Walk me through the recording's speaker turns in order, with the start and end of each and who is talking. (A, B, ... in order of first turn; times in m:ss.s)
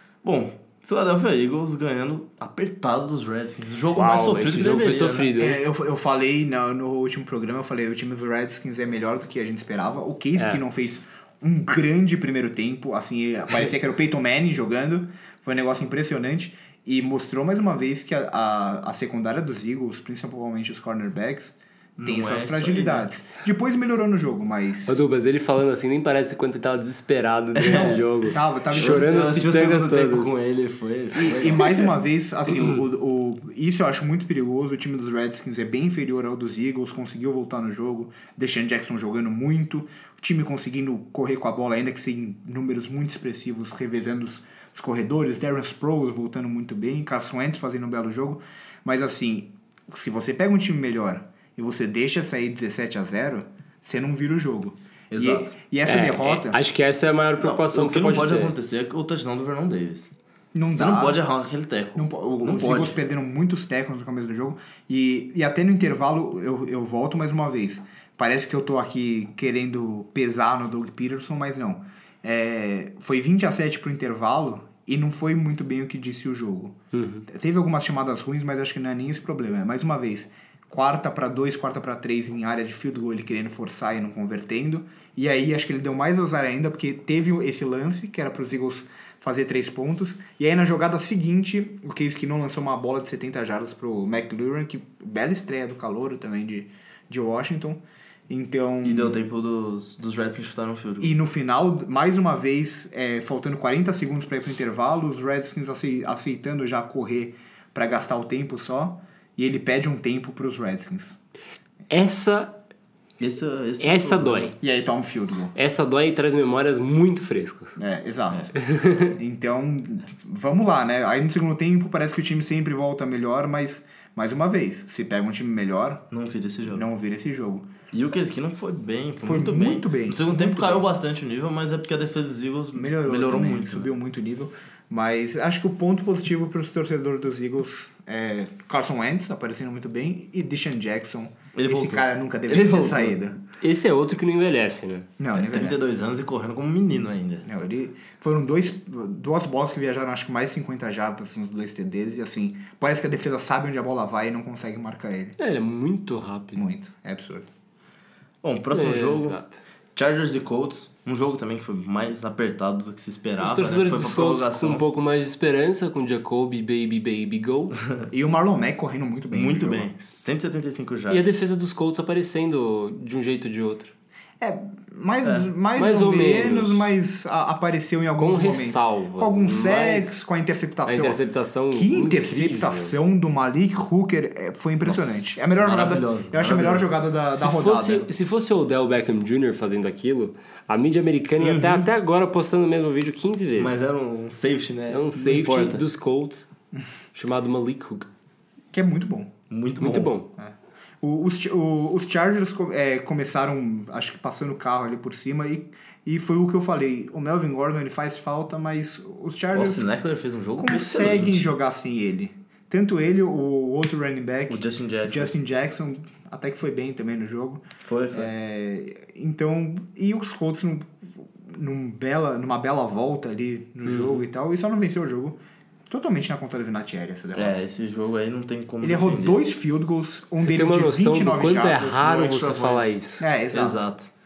0:00.2-0:05.3 A
0:03.9-0:05.6 B
0:05.4-0:25.0 C
0:22.0-0:23.1 A
0:24.8-0:30.3 B
0:27.6-0:28.0 A
0:27.7-0:29.1 C
0:28.7-0:31.9 A
0:31.1-0:56.6 C
0:32.5-0:32.8 B
0:55.1-0:55.5 A
0:55.8-0:58.5 B
0:57.4-1:00.1 A
1:00.5-1:01.2 C
1:00.7-1:03.0 A
1:02.0-1:39.2 C
1:16.9-1:17.2 B
1:38.8-1:41.2 A
1:41.0-1:51.2 C
1:51.9-1:52.6 B
1:53.2-1:54.5 A
1:53.8-1:54.5 B
1:54.6-1:55.5 C
1:55.5-1:57.8 B
1:57.8-1:58.6 C
1:58.6-1:59.2 B
1:59.1-2:06.0 C
2:06.1-2:06.8 A
2:06.7-2:07.7 C
2:07.9-2:13.9 A
2:09.2-2:10.9 C
2:12.7-2:23.4 C
2:21.5-2:23.2 A
2:23.6-2:25.1 B
2:25.2-2:25.8 C
2:25.3-2:27.4 A
2:27.4-2:35.3 C
2:35.4-2:36.6 B
2:36.5-2:37.5 C
2:38.4-2:39.4 A
2:38.7-2:39.6 B
2:39.9-2:44.8 A
2:43.4-2:47.8 B
2:48.1-2:49.9 C
2:49.3-2:51.3 A
2:51.1-2:53.9 B
2:54.4-3:01.2 C
2:55.2-2:55.5 A
2:55.8-2:56.9 B
2:58.2-3:00.2 B
3:00.8-3:02.9 B
3:01.7-3:08.1 C
3:04.8-3:06.9 A
3:07.3-3:13.8 B
3:11.4-3:11.9 A
3:13.6-3:15.8 A
3:14.9-3:16.5 B
3:17.1-3:18.1 B
3:18.7-3:19.3 C
3:19.5-3:20.1 A
3:19.8-3:20.3 B
3:20.4-3:29.9 C
3:29.5-3:31.5 A
3:30.6-3:47.6 C
3:34.5-3:35.3 A
3:37.8-3:38.3 A
3:43.8-3:44.2 A
3:47.3-3:49.4 A
3:48.8-3:52.6 C
3:50.4-3:53.2 B
3:52.2-3:52.8 A
3:53.2-3:53.8 C
3:53.5-3:54.1 A